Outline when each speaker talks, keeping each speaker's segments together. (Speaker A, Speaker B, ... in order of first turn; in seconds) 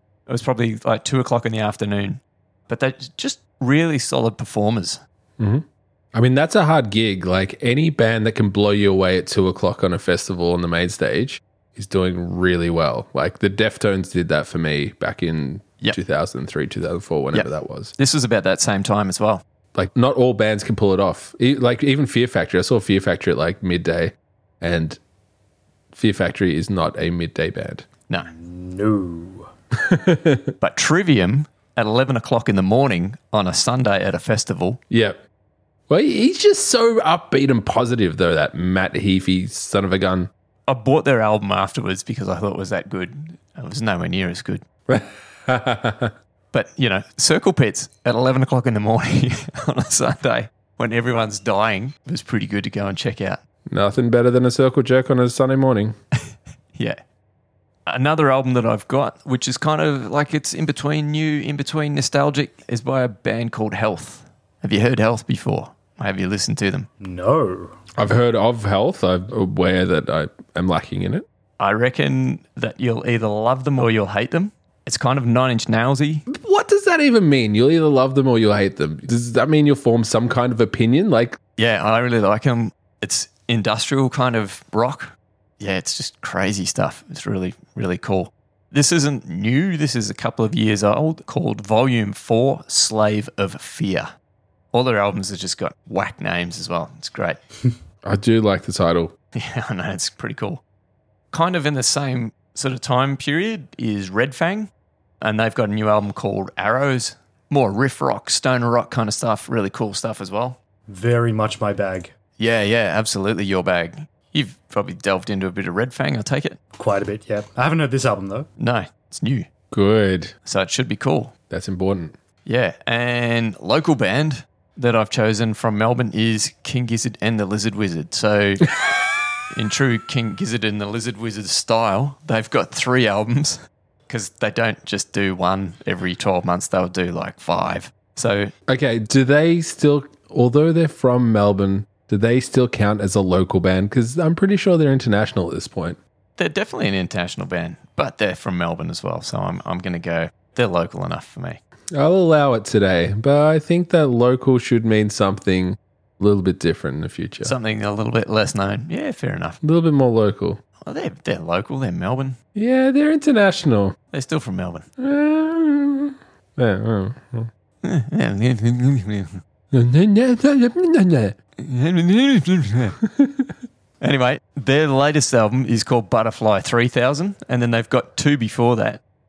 Speaker A: 0.3-5.0, 17.3-19.4, 30.6-34.8, 40.7-44.6, 46.5-53.4, 56.7-57.0, 57.9-66.9, 71.6-76.2, 81.6-94.1, 94.7-97.4, 99.4-100.6, 101.3-104.7, 105.2-110.6, 112.4-116.6, 118.6-119.5, 120.5-121.3, 122.5-128.7, 129.5-138.5, 146.4-151.6, 157.4-159.6, 160.8-162.4, 164.1-164.8, 167.8-169.4, 171.6-173.0, 174.0-179.0
Speaker B: 5.4-5.6, 6.2-17.9, 19.8-25.0, 25.9-27.9, 29.8-30.5, 34.9-35.2, 35.9-40.3, 44.9-46.1, 53.7-55.9, 68.0-71.2, 76.3-81.4, 98.1-99.1, 119.7-120.3, 121.5-122.1, 138.7-146.0, 151.9-157.6, 159.6-160.6, 162.6-163.9, 165.0-167.5, 169.7-171.4, 173.0-173.5
Speaker C: 28.3-29.5, 67.0-67.8, 110.9-112.1, 116.8-118.5